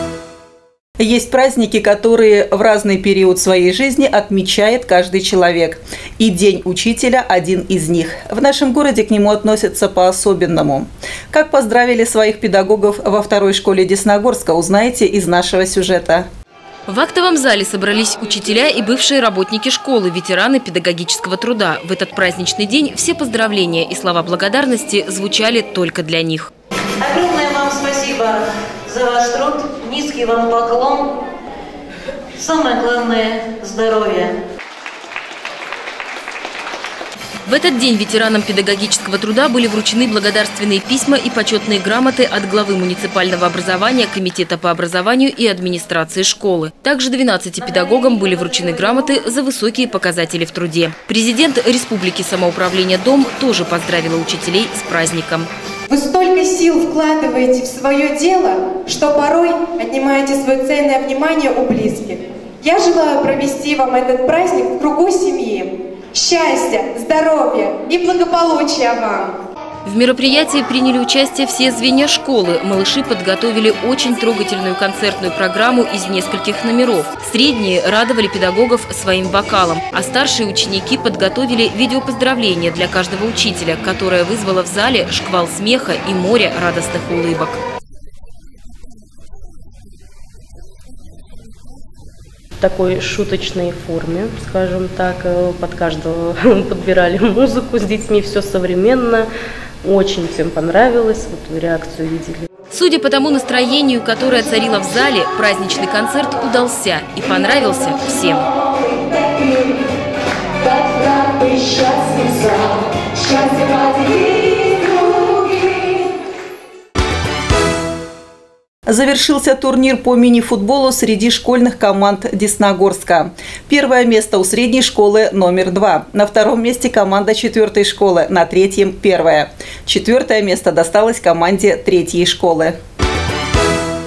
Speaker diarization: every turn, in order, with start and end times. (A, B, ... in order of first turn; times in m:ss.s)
0:01.0-0:16.3 A
0:16.9-0:26.5 B
0:27.0-0:31.1 C
0:32.4-0:34.3 C
0:37.4-0:55.5 B
0:47.7-0:49.0 C
0:55.9-1:09.4 D
1:09.8-1:27.6 B
1:32.6-1:39.3 E
1:39.8-1:42.5 E
1:42.7-1:48.4 B
1:51.8-1:52.5 E
1:58.9-2:12.7 A